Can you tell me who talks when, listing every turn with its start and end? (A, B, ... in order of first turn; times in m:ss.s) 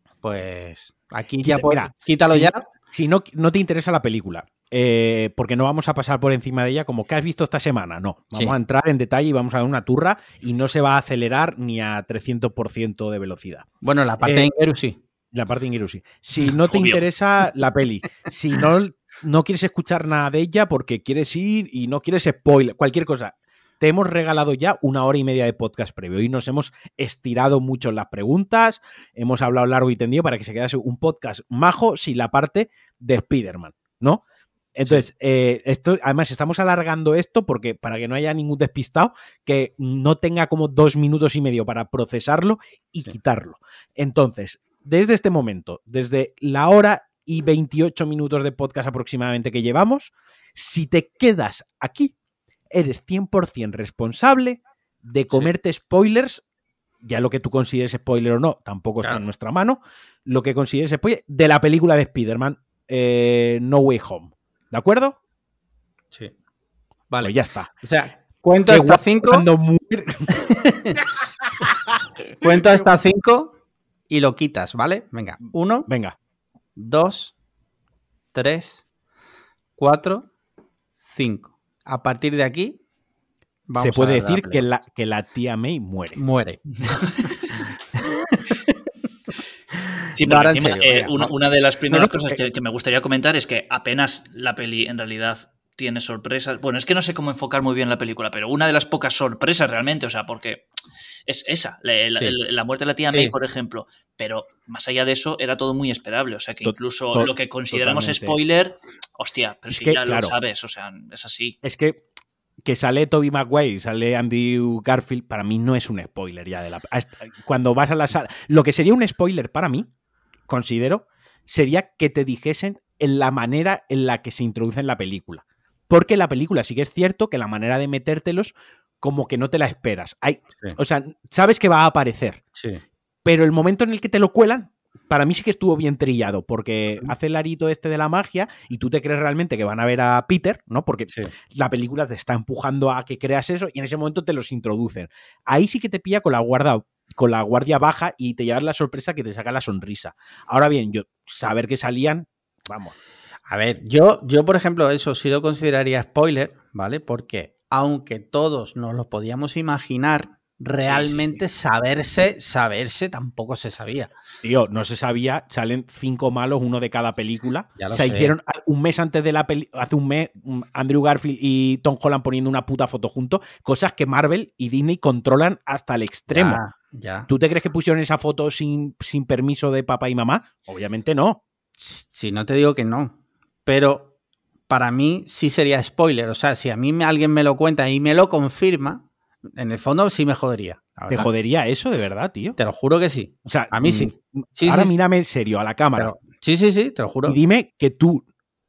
0:00.2-0:02.6 A
0:01.4-0:13.7 B
0:13.8-0:15.0 A
0:14.2-0:14.5 B
0:15.3-0:34.2 B
0:16.7-0:17.0 C
0:34.8-0:52.1 B
0:52.7-0:56.4 B
0:57.0-1:05.2 B
1:07.1-1:09.5 A
1:07.2-1:07.7 B
1:08.7-1:10.3 B
1:10.3-1:11.0 A
1:12.4-1:13.5 A
1:14.1-1:15.9 A
1:15.9-1:16.2 B
1:16.8-1:17.3 A
1:18.3-1:18.8 A
1:19.8-1:20.3 A
1:21.0-1:22.8 A
1:23.7-1:24.6 A
1:23.8-1:26.2 B
1:26.2-1:28.7 A
1:30.0-1:31.3 A
1:30.2-1:40.6 C
1:31.9-1:32.4 B
1:41.3-1:51.6 C
1:46.6-1:48.4 B
1:49.7-1:50.3 B
1:51.6-1:52.0 B
1:52.6-1:59.9 B
2:00.5-2:12.4 B
2:12.6-2:12.8 A
2:13.2-2:33.0 B
2:33.5-2:44.1 A
2:40.8-2:41.4 C
2:44.4-2:56.6 B
2:47.8-2:48.3 A
2:56.3-2:57.3 A
2:57.3-3:01.4 B
3:01.8-3:04.1 A
3:04.7-3:11.3 A
3:11.1-3:12.6 B
3:12.6-3:14.9 A
3:13.4-3:16.1 B
3:16.0-3:17.4 A
3:17.2-3:18.2 B